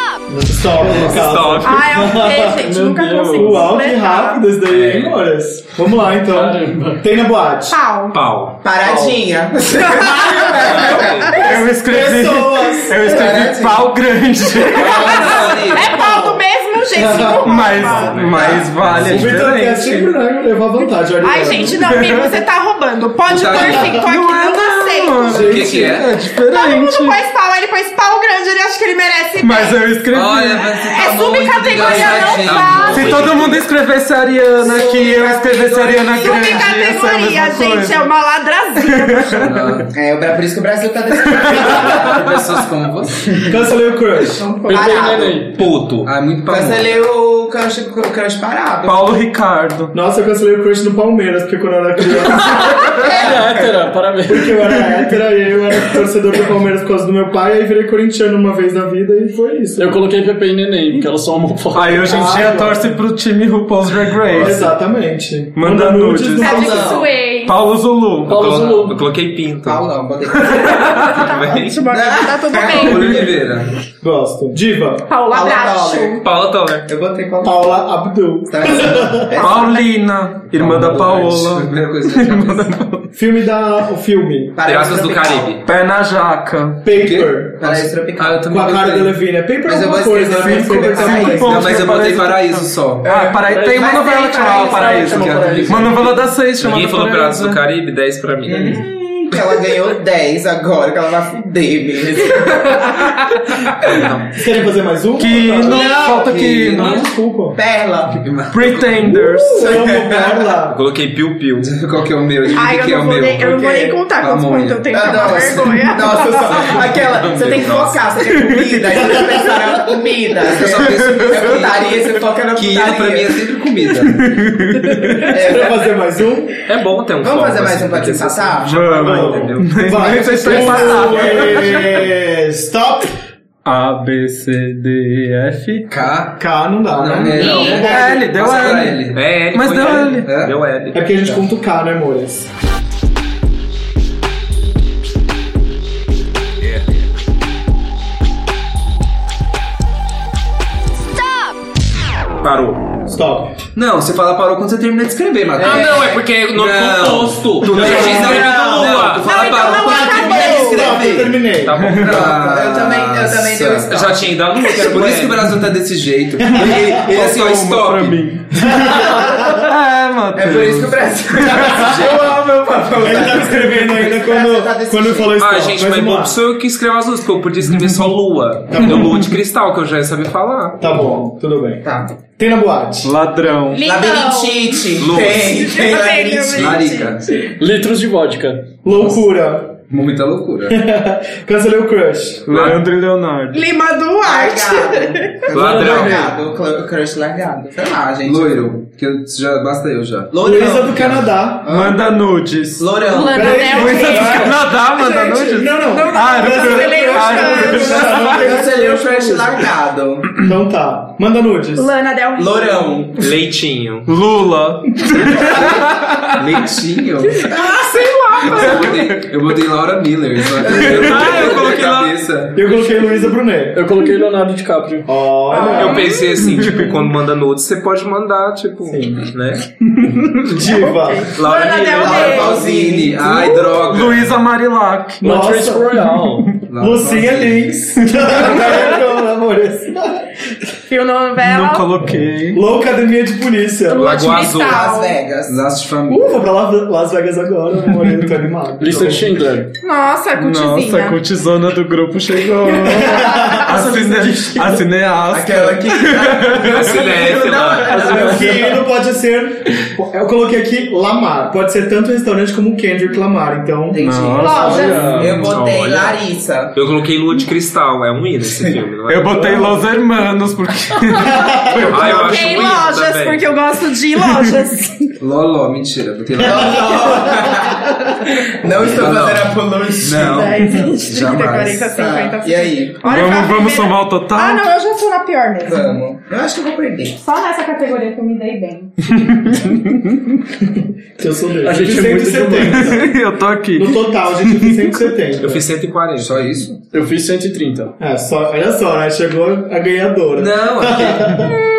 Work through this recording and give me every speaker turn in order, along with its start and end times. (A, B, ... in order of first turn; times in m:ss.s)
0:00.3-0:02.7 A
0:00.8-0:01.9 B
0:01.6-0:04.4 C
0:02.7-0:03.6 D
0:03.3-0:07.8 A
0:04.7-0:05.2 B
0:06.3-0:07.0 D
0:07.7-0:08.2 C
0:08.1-0:08.6 B
0:08.6-0:11.6 E
0:09.9-0:10.5 C
0:10.5-0:11.4 B
0:11.4-0:15.2 F
0:11.4-0:13.4 A
0:13.0-0:13.9 E
0:14.6-0:18.5 C
0:14.8-0:15.9 G
0:15.9-0:16.4 A
0:16.9-0:17.6 A
0:17.4-0:20.1 F
0:17.8-0:19.4 B
0:18.3-0:18.7 E
0:19.0-0:21.8 A
0:21.2-0:25.9 C
0:21.8-0:22.4 F
0:23.3-0:24.1 G
0:23.6-0:27.2 F
0:25.3-0:26.2 G
0:25.3-0:25.7 A
0:26.4-0:29.8 C
0:29.4-0:30.7 F
0:30.1-0:33.6 G
0:30.8-0:33.2 C
0:31.8-0:38.1 F
0:32.2-0:32.8 E
0:34.6-0:36.7 E
0:36.0-0:39.5 C
0:38.8-0:39.6 F
0:39.4-0:39.9 G
0:39.9-0:42.3 E
0:41.3-0:42.0 F
0:41.7-0:43.5 G
0:43.4-0:44.4 A
0:44.4-0:45.4 C
0:44.6-0:45.7 D
0:44.6-0:45.3 E
0:45.3-0:46.1 B
0:46.0-0:47.1 G
0:46.5-0:49.1 E
0:48.8-0:49.9 F
0:49.9-0:52.8 A
0:52.5-0:54.6 D
0:52.6-0:53.1 F
0:53.0-0:53.6 E
0:54.3-0:59.9 A
0:59.8-1:02.5 D
1:01.7-1:04.8 F
1:02.0-1:03.0 A
1:04.3-1:07.0 A
1:05.6-1:06.8 F
1:06.4-1:07.6 C
1:06.4-1:07.1 E
1:07.4-1:08.4 F
1:08.2-1:09.0 D
1:08.3-1:09.8 B
1:09.6-1:11.2 E
1:10.4-1:11.0 F
1:10.6-1:13.3 C
1:11.1-1:11.8 B
1:11.8-1:13.4 E
1:12.6-1:13.7 G
1:14.0-1:15.3 A
1:15.1-1:16.2 C
1:15.3-1:16.3 E
1:16.2-1:16.9 B
1:16.9-1:17.7 E
1:17.4-1:19.4 A
1:18.5-1:19.9 E
1:19.3-1:23.1 F
1:20.5-1:22.8 G
1:23.1-1:24.6 A
1:24.6-1:25.6 E
1:24.6-1:25.6 B
1:25.6-1:26.9 F
1:26.8-1:27.9 A
1:27.0-1:29.2 G
1:27.6-1:28.5 E
1:28.4-1:31.8 A
1:29.6-1:31.8 E
1:30.3-1:33.1 G
1:31.1-1:37.6 F
1:33.1-1:36.2 D
1:33.7-1:35.7 E
1:35.2-1:35.8 G
1:36.6-1:38.8 B
1:38.4-1:43.2 E
1:43.8-1:44.4 B
1:44.3-1:47.6 A
1:45.2-1:47.0 F
1:45.6-1:46.2 E
1:45.7-1:47.1 G
1:47.5-1:48.2 E
1:48.2-1:49.1 G
1:48.5-1:49.8 F
1:49.1-1:50.8 A
1:49.6-1:50.6 E
1:50.7-1:51.7 B
1:51.6-1:55.8 G
1:52.5-1:56.7 C
1:54.9-2:03.5 E
1:56.5-1:57.9 G
1:57.1-1:58.0 B
1:58.3-1:58.7 F
2:00.5-2:01.9 G
2:01.0-2:01.5 F
2:02.5-2:04.4 G
2:04.1-2:05.4 F
2:05.3-2:05.9 E
2:05.3-2:06.5 A
2:06.6-2:10.3 B
2:07.2-2:09.4 E
2:08.6-2:12.1 F
2:09.0-2:13.1 A
2:10.4-2:11.0 C
2:10.6-2:10.9 E
2:13.6-2:15.9 F
2:15.9-2:19.4 G
2:16.4-2:18.3 A
2:17.3-2:18.1 E
2:17.8-2:20.3 F
2:19.1-2:21.0 B
2:20.2-2:20.6 G
2:20.9-2:22.5 A
2:32.4-2:32.8 B
2:33.1-2:33.6 A
2:33.8-2:43.9 G
2:35.6-2:39.4 B
2:35.6-2:35.9 E
2:37.7-2:39.0 A
2:37.8-2:41.3 E
2:39.2-2:41.0 C
2:39.6-2:42.0 A
2:41.5-2:42.4 B
2:42.0-2:45.0 E
2:43.9-2:45.6 B
2:44.7-2:48.2 G
2:46.4-2:46.7 A
2:46.9-2:52.3 F
2:48.5-2:49.7 A
2:50.3-2:55.4 E
2:51.9-2:56.4 A
2:53.0-2:53.7 F
2:55.4-3:00.8 B
2:58.7-2:59.3 A
3:00.8-3:01.8 A
3:01.8-3:02.1 E
3:02.4-3:03.1 A
3:03.0-3:03.8 F
3:03.7-3:04.8 C
3:03.8-3:07.1 E
3:05.0-3:05.5 B
3:05.4-3:07.2 C
3:06.5-3:07.2 G
3:07.4-3:08.8 D
3:08.8-3:09.9 A
3:09.9-3:10.8 G
3:10.7-3:12.5 A
3:12.5-3:13.6 F
3:12.5-3:12.8 B
3:13.5-3:15.5 C
3:14.2-3:18.7 E
3:15.5-3:16.2 G
3:15.5-3:16.3 B
3:15.5-3:16.3 D
3:18.2-3:20.4 G
3:20.3-3:22.1 E
3:20.4-3:21.9 A
3:21.7-3:23.0 F
3:22.8-3:24.3 E
3:23.0-3:28.1 C
3:23.3-3:29.7 A
3:23.6-3:28.5 F
3:27.6-3:30.4 E
3:30.4-3:31.9 A
3:31.8-3:33.0 C
3:32.4-3:33.3 E
3:33.2-3:34.1 B
3:34.0-3:36.3 F
3:35.3-3:35.8 E
3:36.4-3:37.4 G
3:37.4-3:38.9 C
3:37.4-3:37.9 E
3:38.4-3:42.7 G
3:40.6-3:42.1 F
3:40.7-3:41.3 E
3:40.8-3:42.0 B
3:42.5-3:43.8 A
3:43.7-3:45.1 D
3:45.0-3:46.2 A
3:45.5-3:46.4 C
3:45.7-3:49.7 B
3:46.6-3:46.9 F
3:48.9-3:49.3 A
3:50.0-3:51.4 A
3:50.7-3:52.6 C
3:51.4-3:54.4 G
3:51.4-3:53.8 E
3:51.6-3:51.9 B
3:53.9-3:55.2 F
3:55.2-3:56.0 A
3:55.2-3:56.5 D
3:56.7-3:57.6 G
3:56.8-4:00.3 A
4:00.9-4:01.9 C
4:01.4-4:02.6 F
4:02.5-4:04.4 A
4:03.9-4:05.2 C
4:04.0-4:05.0 B
4:04.5-4:05.6 E
4:05.4-4:06.4 G
4:06.1-4:09.4 A
4:08.8-4:09.7 D
4:09.8-4:11.2 C
4:10.4-4:17.0 F
4:12.6-4:13.7 C
4:12.9-4:14.8 A
4:15.3-4:18.4 E
4:16.5-4:18.2 B
4:17.9-4:24.0 A
4:18.0-4:18.6 F
4:23.9-4:26.7 E
4:24.0-4:25.4 F
4:24.4-4:25.0 C
4:24.7-4:25.5 D
4:25.2-4:26.2 B
4:26.7-4:29.4 B
4:29.1-4:32.4 F
4:31.1-4:32.0 A
4:31.8-4:33.6 B
4:31.9-4:35.1 C
4:34.3-4:34.6 F
4:35.2-4:37.2 G
4:36.4-4:40.7 E
4:38.8-4:41.9 G
4:40.3-4:46.0 C
4:41.9-4:43.1 E
4:43.0-4:44.6 F
4:45.6-4:47.2 E
4:47.2-4:49.1 C
4:49.1-4:50.3 F
4:51.2-4:53.1 A
4:51.6-4:53.0 D
4:52.7-4:54.9 F
4:53.8-4:55.7 A
4:55.4-4:56.4 B
4:56.2-4:56.8 G
4:56.8-4:57.9 D
4:58.0-5:01.6 A
5:00.3-5:01.4 G